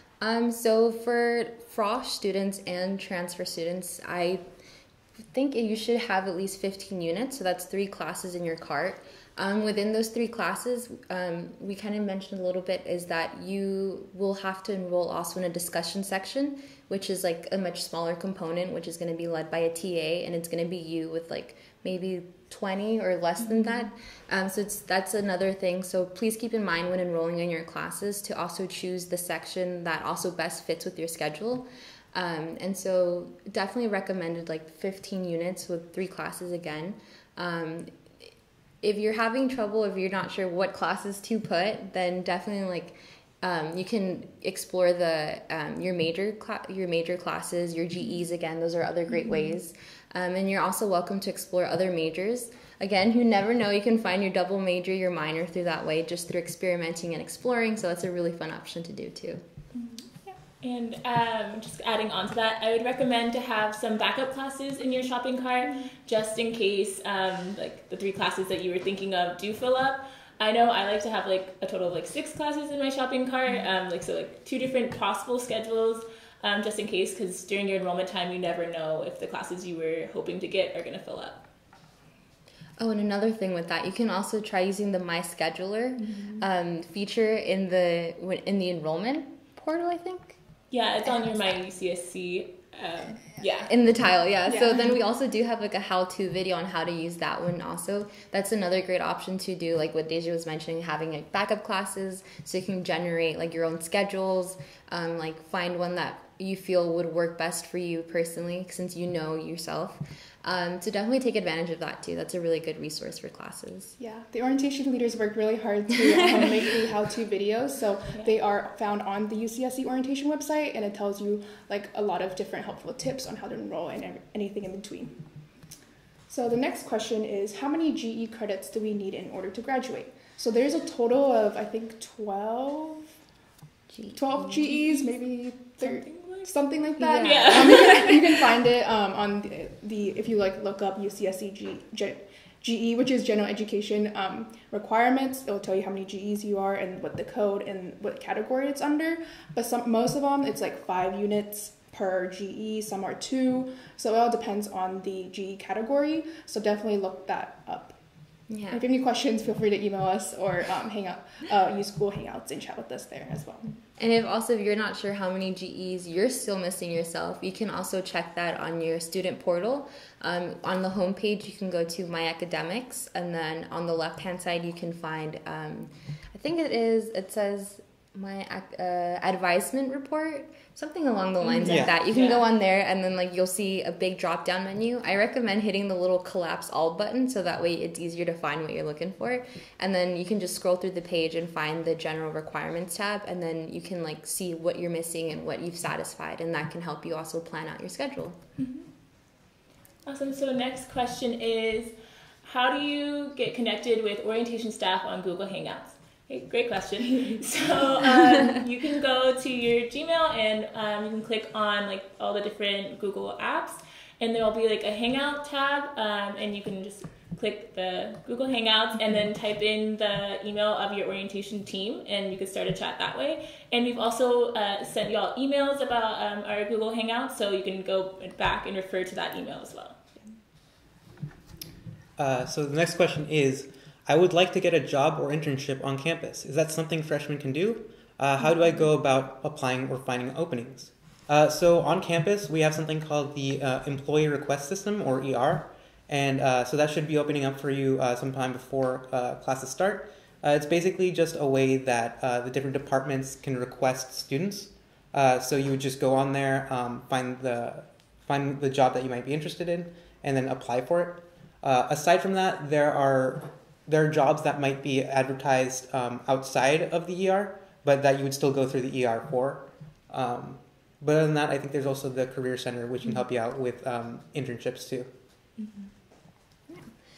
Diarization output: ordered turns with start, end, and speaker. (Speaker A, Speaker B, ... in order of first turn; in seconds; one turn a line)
Speaker A: 0.2-4.4
Speaker A: 5.3-37.9
Speaker B: 23.6-23.8
Speaker A: 38.8-59.4
Speaker C: 59.8-60.3
Speaker B: 60.6-81.4
Speaker A: 82.8-90.4
Speaker B: 90.7-93.7
Speaker A: 91.0-91.5
Speaker A: 93.6-114.0
Speaker C: 94.5-94.8
Speaker C: 114.0-125.1
Speaker C: 126.3-133.1
Speaker A: 133.9-134.7
Speaker C: 134.1-157.9
Speaker B: 134.6-135.1
Speaker B: 135.8-136.5
Speaker A: 137.0-137.8
Speaker B: 137.0-138.4
Speaker A: 158.5-158.8
Speaker C: 158.7-163.6
Speaker A: 164.0-198.4
Speaker B: 181.4-182.4
Speaker D: 181.6-181.9
Speaker B: 198.6-198.8
Speaker B: 200.1-201.9
Speaker B: 202.4-230.0
Speaker D: 232.2-275.1
Speaker B: 275.6-275.9